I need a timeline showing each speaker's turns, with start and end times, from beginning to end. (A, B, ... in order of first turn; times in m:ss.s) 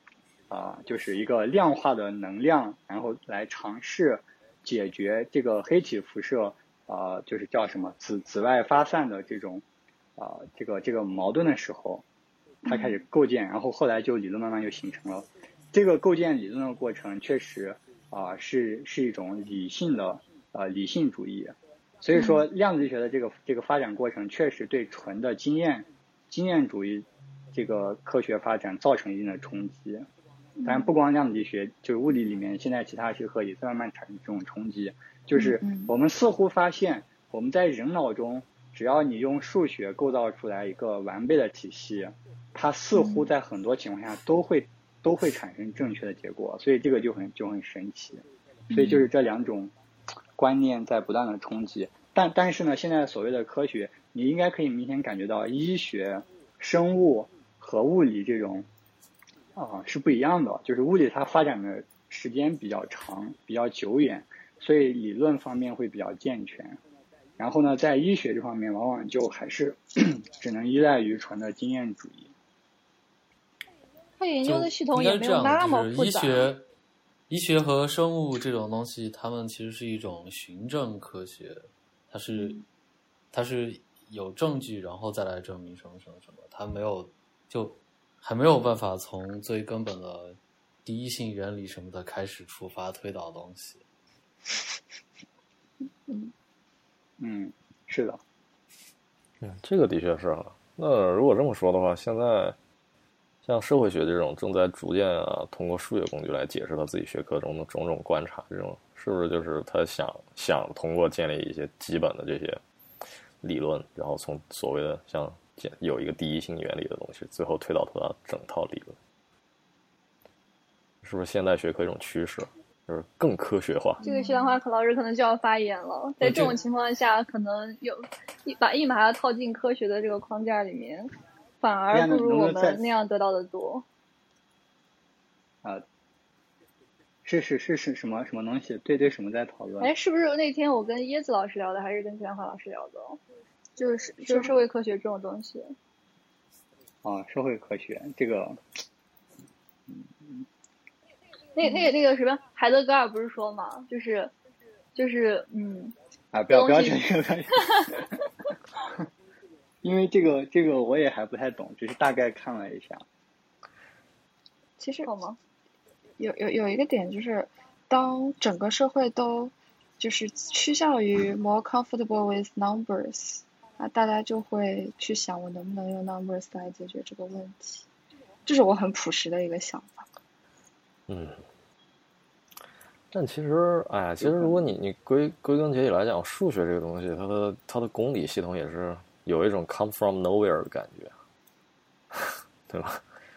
0:00.5-0:09.6 A
0:10.2-0:12.0 A
0:12.6-0:30.1 A
0:12.6-0:13.0 B
0:22.1-0:22.4 B
0:30.6-0:49.7 A
0:35.3-0:35.9 B
0:42.9-0:43.3 B
0:48.7-0:49.1 B
0:50.4-0:58.7 A
0:59.5-1:06.8 A
1:07.4-1:12.3 A
1:14.2-1:16.5 C
1:14.4-1:16.6 D
1:17.3-1:22.6 D
1:23.3-1:33.8 D
1:36.0-1:36.3 B
1:37.2-1:38.2 A
1:39.4-1:42.6 E
1:43.4-1:52.6 E
1:53.4-1:59.0 E
2:01.0-2:04.0 E
2:04.0-2:04.6 B
2:04.0-2:13.8 C
2:06.2-2:06.6 E
2:11.9-2:12.8 A
2:17.2-2:19.9 A
2:19.8-2:23.2 C
2:23.8-2:24.6 B
2:24.2-2:25.7 C
2:27.0-2:28.6 A
2:29.9-2:30.4 A
2:31.6-2:34.3 C
2:31.6-2:31.9 B
2:35.0-2:35.9 C
2:36.3-2:38.0 A
2:36.5-2:37.0 C
2:39.8-2:43.0 A
2:44.8-2:45.1 B
2:45.0-2:45.4 C
2:46.2-2:57.8 B
2:58.4-3:00.1 B
3:01.1-3:01.4 E
3:03.1-3:11.1 E
3:04.2-3:04.6 A
3:12.1-3:13.0 E